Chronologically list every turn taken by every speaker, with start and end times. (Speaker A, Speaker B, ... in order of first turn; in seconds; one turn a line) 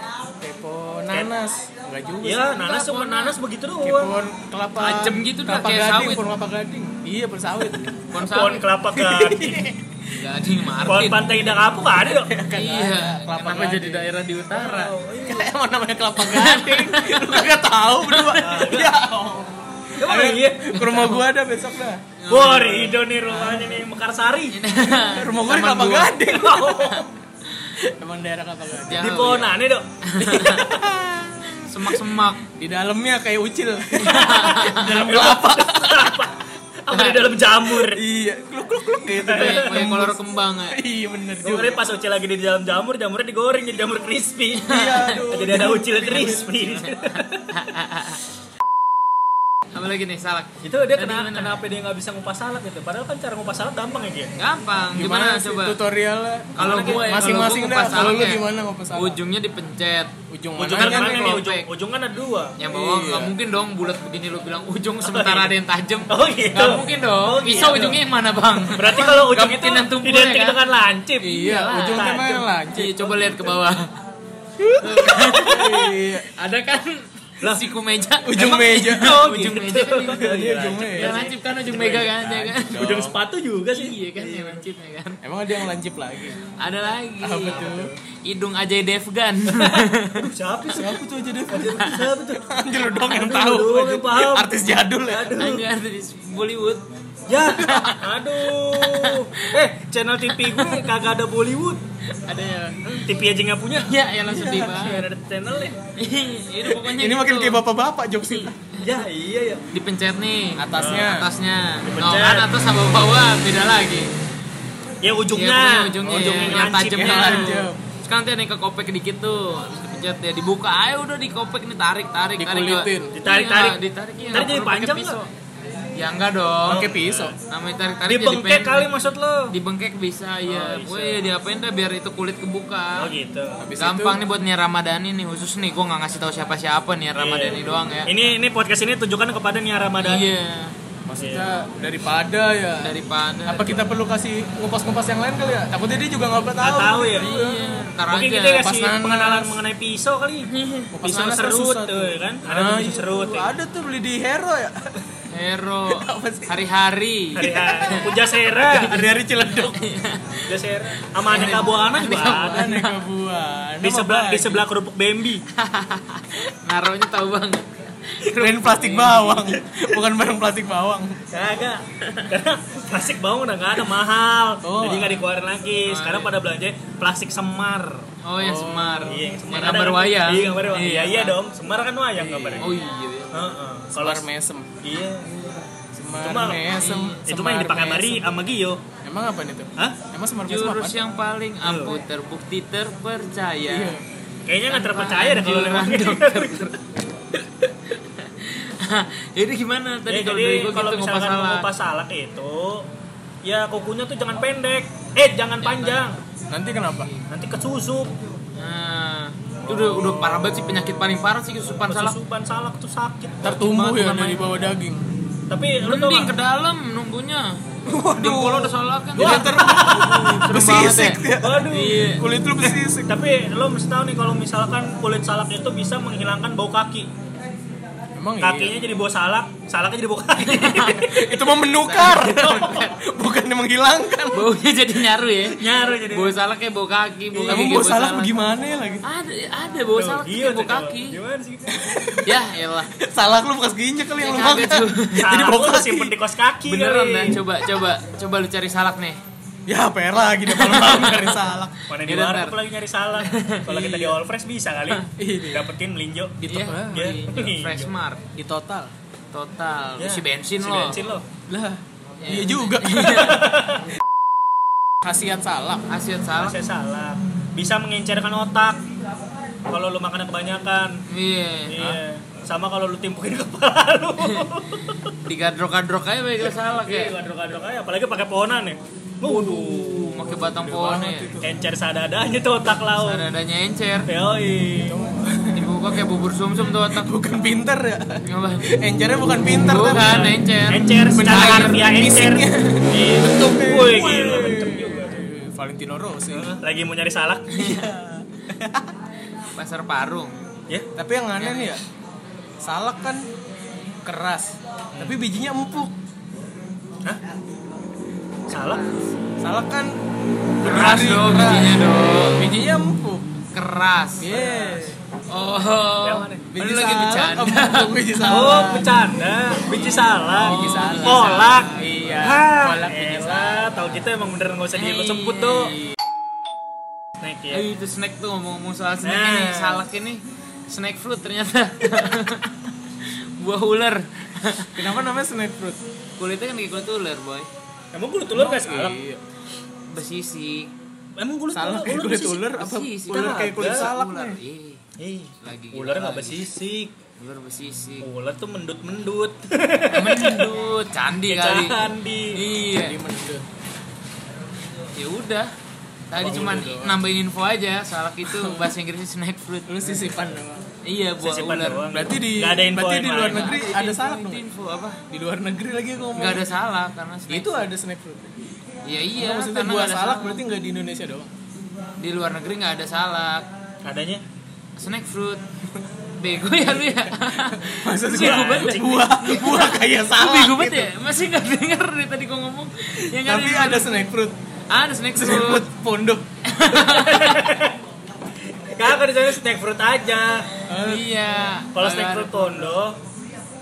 Speaker A: 0.4-2.6
Speaker B: 2.2-4.2
Speaker C: 2.6-3.3
Speaker A: 3.8-8.0
Speaker C: 4.8-6.2
Speaker C: 8.1-8.6
Speaker B: 8.1-9.7
Speaker A: 8.9-9.9
Speaker C: 10.1-11.6
Speaker B: 10.8-12.3
Speaker A: 11.9-14.1
Speaker C: 12.5-14.9
Speaker B: 14.5-15.5
Speaker A: 15.2-22.0
Speaker C: 16.2-18.6
Speaker B: 18.4-19.0
Speaker B: 20.0-20.8
Speaker C: 20.7-21.2
Speaker C: 22.2-23.8
Speaker B: 22.3-24.6
Speaker C: 24.5-26.2
Speaker A: 25.0-27.0
Speaker B: 26.3-27.1
Speaker A: 27.7-29.2
Speaker C: 28.9-30.7
Speaker B: 29.0-29.9
Speaker A: 30.2-32.0
Speaker C: 31.6-32.4
Speaker A: 32.6-36.2
Speaker C: 34.0-34.9
Speaker B: 34.1-38.0
Speaker C: 36.9-37.3
Speaker A: 37.9-41.8
Speaker B: 39.3-39.8
Speaker C: 39.3-40.8
Speaker B: 41.4-47.5
Speaker C: 44.6-45.3
Speaker A: 44.7-46.9
Speaker C: 46.2-48.2
Speaker C: 49.7-51.6
Speaker B: 50.6-54.3
Speaker C: 54.4-55.8
Speaker A: 54.9-59.2
Speaker B: 56.6-58.3
Speaker C: 56.6-60.1
Speaker A: 60.3-61.4
Speaker B: 60.5-62.5
Speaker C: 60.7-61.6
Speaker C: 62.6-70.6
Speaker A: 62.7-63.3
Speaker B: 65.0-65.5
Speaker B: 66.1-68.0
Speaker B: 68.7-71.4
Speaker A: 71.2-73.4
Speaker C: 71.3-72.1
Speaker B: 71.9-72.5
Speaker C: 72.7-73.9
Speaker C: 74.8-75.7
Speaker B: 75.0-75.8
Speaker A: 75.4-76.3
Speaker C: 76.3-80.3
Speaker B: 77.4-77.7
Speaker A: 78.2-79.2
Speaker B: 78.3-82.2
Speaker A: 80.1-83.2
Speaker C: 80.9-82.8
Speaker B: 82.7-84.7
Speaker C: 83.7-85.2
Speaker A: 85.2-86.4
Speaker C: 86.6-90.2
Speaker A: 87.2-87.9
Speaker B: 87.4-88.0
Speaker B: 89.5-94.5
Speaker A: 90.7-95.4
Speaker B: 95.1-95.7
Speaker C: 95.4-96.8
Speaker B: 97.3-101.8
Speaker C: 97.5-99.5
Speaker A: 97.6-97.9
Speaker C: 100.3-100.8
Speaker C: 102.2-102.8
Speaker B: 102.8-105.8
Speaker C: 103.8-105.1
Speaker A: 104.3-104.8
Speaker C: 106.0-107.6
Speaker A: 106.7-108.7
Speaker C: 108.2-109.0
Speaker B: 108.8-109.6
Speaker C: 109.7-114.1
Speaker A: 110.6-111.3
Speaker B: 110.8-111.0
Speaker B: 111.8-112.5
Speaker B: 115.0-117.6
Speaker C: 115.3-125.3
Speaker A: 116.2-117.8
Speaker A: 122.4-123.2
Speaker B: 123.1-125.2
Speaker C: 126.0-126.9
Speaker A: 126.7-127.3
Speaker B: 126.7-127.4
Speaker C: 127.5-128.9
Speaker B: 128.1-129.5
Speaker C: 129.5-133.1
Speaker B: 130.4-131.2
Speaker B: 133.0-133.6
Speaker A: 133.6-134.2
Speaker C: 133.8-138.1
Speaker B: 137.2-140.3
Speaker C: 140.0-140.7
Speaker A: 141.1-142.9
Speaker B: 141.2-141.5
Speaker C: 142.8-143.8
Speaker A: 143.4-147.9
Speaker B: 146.6-147.3
Speaker C: 147.2-148.7
Speaker B: 148.1-150.5
Speaker A: 148.6-149.6
Speaker C: 150.4-150.9
Speaker A: 150.9-154.9
Speaker B: 151.0-153.5
Speaker C: 155.3-158.1
Speaker A: 155.9-156.6
Speaker B: 157.3-159.2
Speaker A: 157.4-159.8
Speaker C: 159.4-160.4
Speaker B: 160.4-162.7
Speaker A: 161.3-164.6
Speaker C: 161.3-163.0
Speaker B: 163.8-165.4
Speaker C: 165.6-169.6
Speaker A: 168.2-171.2
Speaker B: 171.3-178.1
Speaker A: 174.6-175.2
Speaker C: 175.9-176.3
Speaker C: 178.2-181.4
Speaker A: 178.4-179.3
Speaker B: 179.1-182.7
Speaker A: 182.2-182.8
Speaker C: 182.6-183.4
Speaker B: 183.3-184.2
Speaker A: 183.9-184.7
Speaker B: 184.8-185.6
Speaker A: 185.9-188.2
Speaker B: 186.2-186.7
Speaker C: 186.7-187.2
Speaker B: 187.2-188.8
Speaker A: 189.0-191.0
Speaker C: 190.5-194.0
Speaker B: 191.6-191.9
Speaker A: 193.7-194.0
Speaker B: 194.4-196.7
Speaker C: 194.7-196.8
Speaker C: 197.3-201.7
Speaker B: 200.1-202.9
Speaker B: 203.4-206.2
Speaker C: 205.6-206.1
Speaker A: 206.5-207.1
Speaker C: 206.9-207.3
Speaker B: 207.3-208.1
Speaker C: 208.6-212.2
Speaker B: 209.6-210.3
Speaker B: 211.8-213.5
Speaker A: 213.4-215.0
Speaker C: 213.4-214.4
Speaker B: 215.5-216.3
Speaker C: 215.8-222.2
Speaker A: 217.8-223.1
Speaker B: 219.1-220.3
Speaker B: 221.4-222.1
Speaker B: 222.7-227.1
Speaker A: 228.2-228.8
Speaker B: 228.4-231.1
Speaker C: 230.4-232.9
Speaker A: 231.0-234.5
Speaker C: 234.3-238.4
Speaker B: 235.5-236.4
Speaker B: 237.3-237.9
Speaker A: 237.4-239.0
Speaker C: 239.0-241.2
Speaker B: 239.9-241.6
Speaker A: 241.7-242.3
Speaker C: 242.2-242.9
Speaker A: 243.0-246.1
Speaker C: 244.2-245.3
Speaker B: 245.2-247.4
Speaker C: 246.7-249.2
Speaker A: 249.7-251.8
Speaker C: 250.5-251.4
Speaker B: 251.9-257.9
Speaker C: 252.0-252.6
Speaker C: 253.2-254.1
Speaker A: 255.2-255.7
Speaker A: 256.4-257.2
Speaker C: 256.4-258.2
Speaker A: 258.4-258.9
Speaker C: 259.3-261.0
Speaker B: 260.0-261.2
Speaker A: 261.5-263.3
Speaker C: 262.2-263.4
Speaker B: 263.0-263.8
Speaker A: 265.0-265.9
Speaker C: 265.9-266.6
Speaker B: 266.4-268.8
Speaker B: 269.7-271.0
Speaker C: 271.1-272.0
Speaker B: 271.7-275.0
Speaker C: 275.2-277.1
Speaker B: 276.5-280.5
Speaker C: 279.2-281.3
Speaker A: 280.5-281.5
Speaker B: 281.4-283.3
Speaker C: 282.9-284.1
Speaker B: 284.1-285.0
Speaker A: 284.7-285.7
Speaker C: 285.5-287.1
Speaker A: 286.9-290.3
Speaker C: 288.3-288.7
Speaker C: 289.5-291.7
Speaker B: 289.9-295.3
Speaker A: 291.1-296.5
Speaker B: 296.3-297.9
Speaker C: 297.5-297.9
Speaker A: 297.7-298.9
Speaker C: 299.5-300.4
Speaker A: 300.9-301.8
Speaker C: 301.4-301.8
Speaker A: 302.6-303.3
Speaker A: 304.0-305.9
Speaker B: 304.9-305.2
Speaker B: 308.5-308.8
Speaker C: 308.6-309.0
Speaker A: 309.4-310.0
Speaker A: 310.6-313.3
Speaker C: 310.6-312.5
Speaker C: 313.5-314.3
Speaker A: 314.2-314.9
Speaker B: 314.3-314.9
Speaker C: 315.3-317.9
Speaker B: 316.0-316.5
Speaker A: 316.5-319.0
Speaker B: 318.2-325.8
Speaker C: 319.7-322.2
Speaker A: 319.8-323.7
Speaker C: 324.7-325.9
Speaker B: 327.2-327.6
Speaker C: 327.5-332.5
Speaker B: 329.0-329.9
Speaker C: 333.4-334.8
Speaker A: 334.8-335.8
Speaker C: 336.2-337.5
Speaker B: 337.9-339.0
Speaker A: 338.3-339.2
Speaker C: 339.9-340.7
Speaker B: 341.2-342.5
Speaker A: 341.5-344.4
Speaker C: 342.6-344.8
Speaker B: 343.1-343.9
Speaker B: 345.0-346.9
Speaker C: 345.4-346.5
Speaker C: 347.2-348.1
Speaker B: 348.0-350.5
Speaker C: 349.9-353.0
Speaker B: 351.3-352.4
Speaker A: 352.7-353.4
Speaker C: 354.9-355.5
Speaker C: 356.1-360.2
Speaker A: 356.1-357.0
Speaker A: 358.2-358.7
Speaker A: 359.7-360.6
Speaker C: 360.8-361.8
Speaker B: 361.2-363.6
Speaker A: 361.9-364.4
Speaker C: 363.2-365.0
Speaker A: 365.1-366.5
Speaker C: 366.1-367.7
Speaker A: 367.3-368.3
Speaker C: 368.9-370.4
Speaker A: 369.1-371.3
Speaker C: 372.0-373.5
Speaker B: 373.8-374.2
Speaker C: 374.8-375.4
Speaker C: 376.2-383.9
Speaker A: 377.7-380.9
Speaker B: 378.1-378.8
Speaker A: 383.0-384.4
Speaker C: 384.7-385.6
Speaker A: 385.1-386.2
Speaker C: 386.4-387.5
Speaker B: 386.8-387.8
Speaker B: 388.7-390.5
Speaker A: 390.7-391.1
Speaker C: 390.8-392.8
Speaker B: 391.7-393.0